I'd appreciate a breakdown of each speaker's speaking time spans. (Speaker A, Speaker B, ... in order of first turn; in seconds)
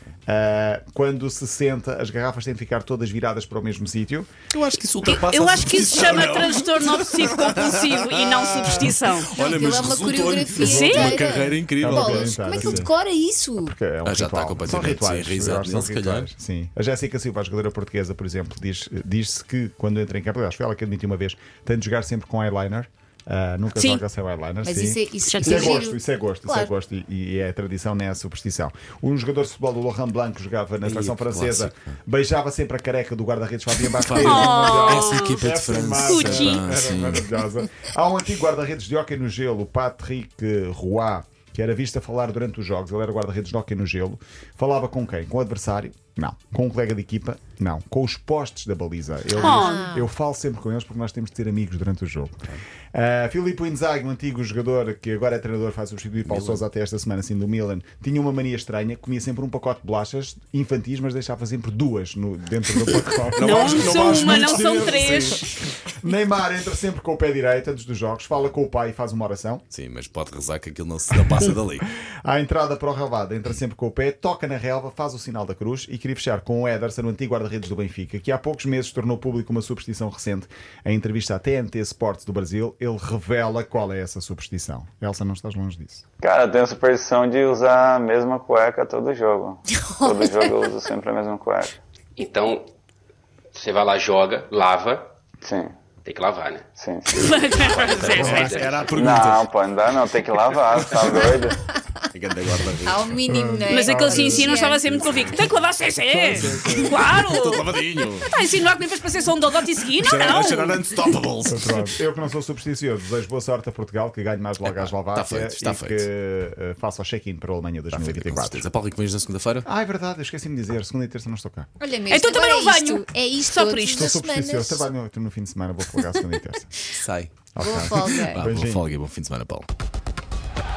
Speaker A: 0.3-4.3, 10.6-12.9, 13.6-52.4, 52.9-65.0, 65.9-69.6, 72.2-86.0, 103.3-104.4, 106.3-106.7, 111.5-118.7, 119.6-121.7, 123.9-126.7, 127.5-128.9
Speaker B: 4.5-12.8, 14.0-16.3, 30.8-31.9, 33.9-37.3, 56.3-56.6, 63.4-65.5, 69.7-71.9, 97.9-99.5, 100.3-101.3, 102.1-103.2, 106.2-108.3, 109.9-111.9, 114.6-116.0, 117.9-119.7, 126.9-127.5, 128.3-129.7
Speaker C: 5.0-9.3, 10.6-11.2, 23.7-24.0, 25.3-25.8, 34.1-36.7, 49.3-49.8, 63.4-65.5, 97.1-98.5, 103.7-107.7, 108.2-111.2, 122.1-124.1
Speaker D: 9.3-13.8, 24.6-26.7, 49.3-50.1, 89.7-90.6, 102.8-105.0, 121.8-124.8, 127.6-128.4
Speaker E: 86.2-91.7, 95.4-95.7, 96.8-97.2, 98.9-101.6
Speaker F: 92.2-92.7, 93.5-95.1, 96.0-96.7, 97.3-99.0